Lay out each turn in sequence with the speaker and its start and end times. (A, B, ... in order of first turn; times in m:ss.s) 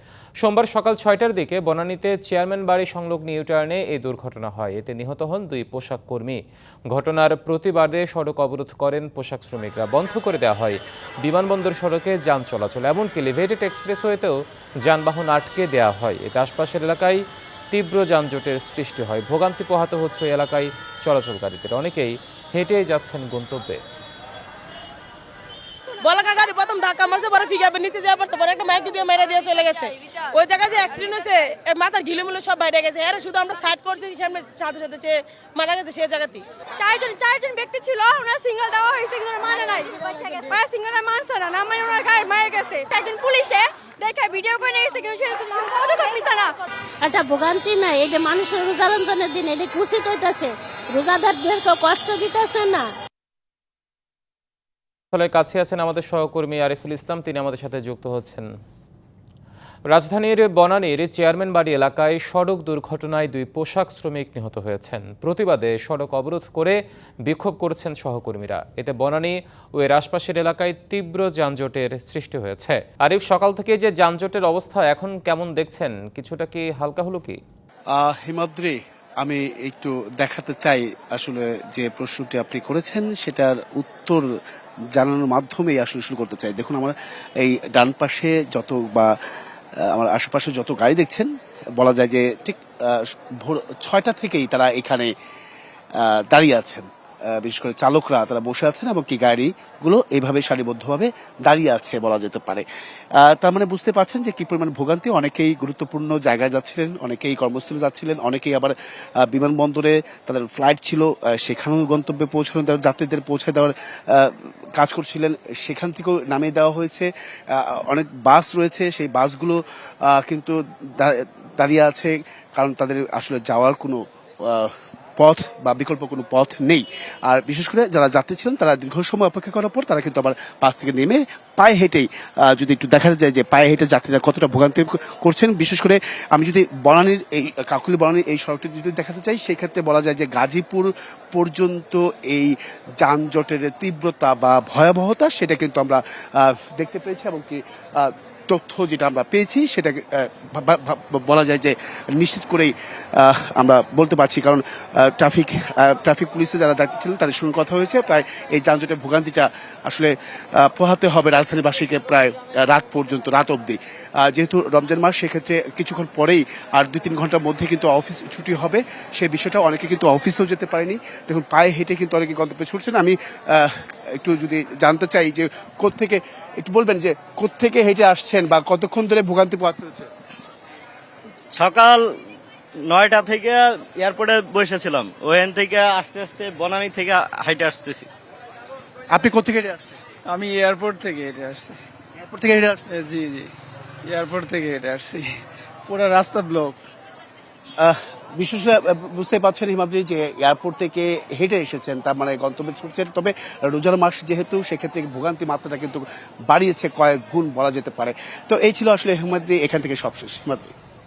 0:00.4-0:23.8 A
0:26.0-0:36.4 B
0:36.8-0:46.6 C
0:47.0-0:52.9 D
0:55.1-0:58.5 A
0:59.9-1:17.4 A
1:18.0-1:24.2 E
1:25.0-1:29.1 E
1:29.9-1:31.3 E
1:31.8-1:35.1 E
1:36.0-1:42.6 E
1:43.2-3:00.1 E
3:01.5-3:02.0 F
3:02.9-3:08.1 F
3:09.1-3:10.0 E
3:10.3-3:11.8 G
3:12.2-3:12.9 E
3:12.9-3:13.5 G
3:14.1-3:15.3 G
3:15.9-3:16.8 E
3:17.8-3:30.7 E